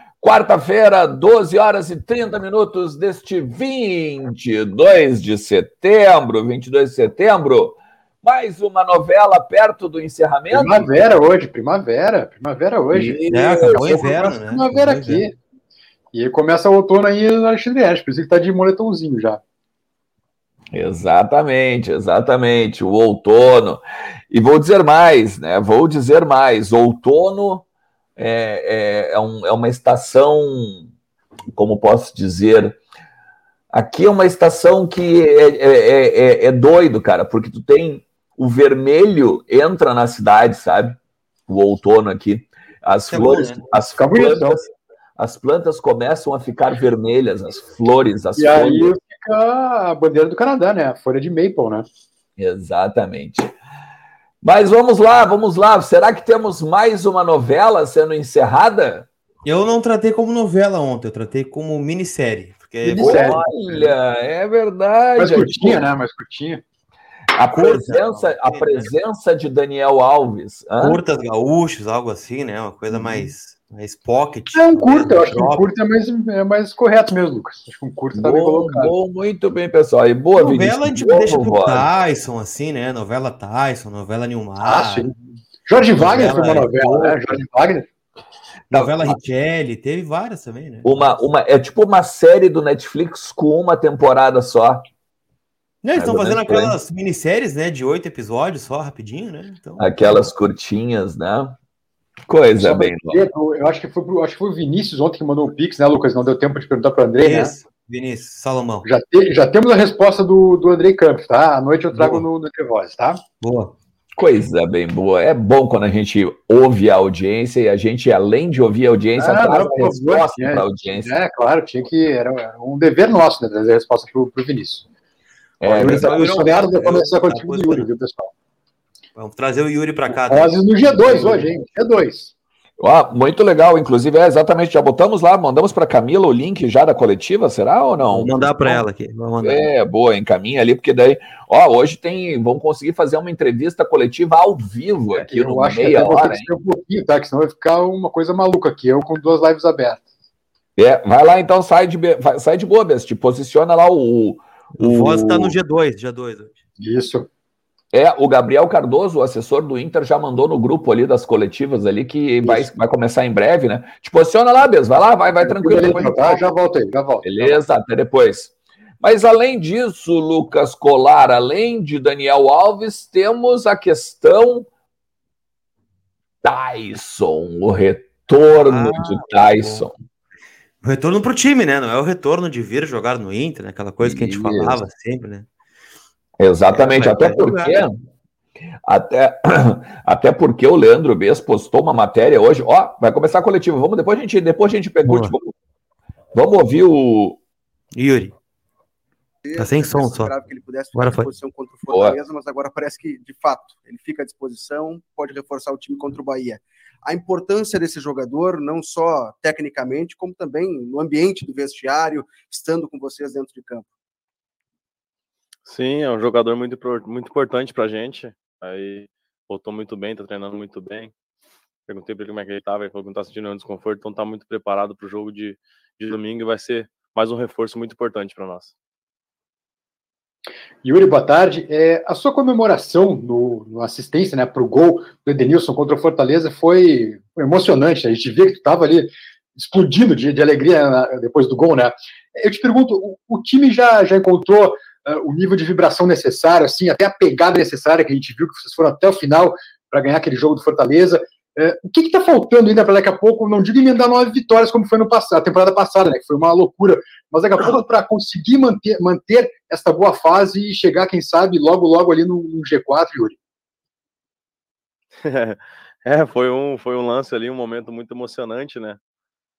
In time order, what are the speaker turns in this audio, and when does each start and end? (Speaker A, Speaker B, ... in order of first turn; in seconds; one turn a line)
Speaker A: 0.2-11.0
Speaker B: 10.5-15.3
Speaker A: 12.9-14.3
Speaker C: 13.3-15.2
Speaker B: 16.1-19.4
Speaker A: 20.7-27.6
Speaker A: 28.2-30.9
Speaker A: 31.5-32.8
Speaker A: 33.7-48.9
Speaker C: 43.1-43.6
Speaker B: 44.0-44.6
Speaker B: 48.4-51.9
Speaker A: 52.4-53.5
Speaker A: 54.4-59.1
Speaker C: 59.4-63.9
Speaker B: 62.8-63.4
Speaker A: 63.0-65.8
Speaker B: 65.2-66.6
Speaker A: 67.3-71.0
Speaker C: 67.5-68.9
Speaker C: 70.8-75.7
Speaker A: 73.0-73.2
Speaker B: 74.5-78.9
Speaker A: 78.1-81.9
Speaker C: 80.3-85.1
Speaker B: 84.6-85.1
Speaker B: 85.7-87.9
Speaker C: 85.9-87.4
Speaker C: 88.7-91.2
Speaker A: 88.7-89.2
Speaker A: 90.8-94.8
Speaker C: 95.8-100.3
Speaker A: 95.9-96.8
Speaker A: 99.8-101.6
Speaker A: 102.3-103.2
Speaker B: 102.6-107.5
Speaker C: 107.2-108.8
Speaker B: 108.8-113.2
Speaker C: 111.9-112.2
Speaker C: 113.4-113.7
Speaker A: 114.1-121.1
Speaker B: 119.2-124.8
Speaker A: 125.6-126.3
Speaker C: 125.6-127.9
Speaker B: 125.7-128.3
Speaker C: 129.1-131.5
Speaker B: 130.2-132.3
Speaker A: 132.8-138.8
Speaker C: 138.0-139.6
Speaker A: 139.4-146.5
Speaker B: 145.2-150.0
Speaker A: 150.8-155.6
Speaker C: 154.8-156.6
Speaker B: 156.8-157.3
Speaker A: 157.9-166.4
Speaker B: 162.4-162.7
Speaker B: 165.4-167.6
Speaker A: 167.2-174.7
Speaker A: 176.4-179.9
Speaker C: 178.5-179.9
Speaker C: 180.8-185.5
Speaker A: 184.0-184.8
Speaker A: 186.4-187.9
Speaker C: 186.7-187.8
Speaker A: 188.8-195.5
Speaker C: 195.1-195.3
Speaker A: 196.3-197.4
Speaker C: 197.9-198.3
Speaker D: 199.4-213.9
Speaker C: 199.6-200.3
Speaker C: 200.9-201.3
Speaker A: 201.9-202.2
Speaker E: 215.7-221.1
Speaker E: 221.9-228.7
Speaker B: 230.8-263.4
Speaker E: 265.2-269.0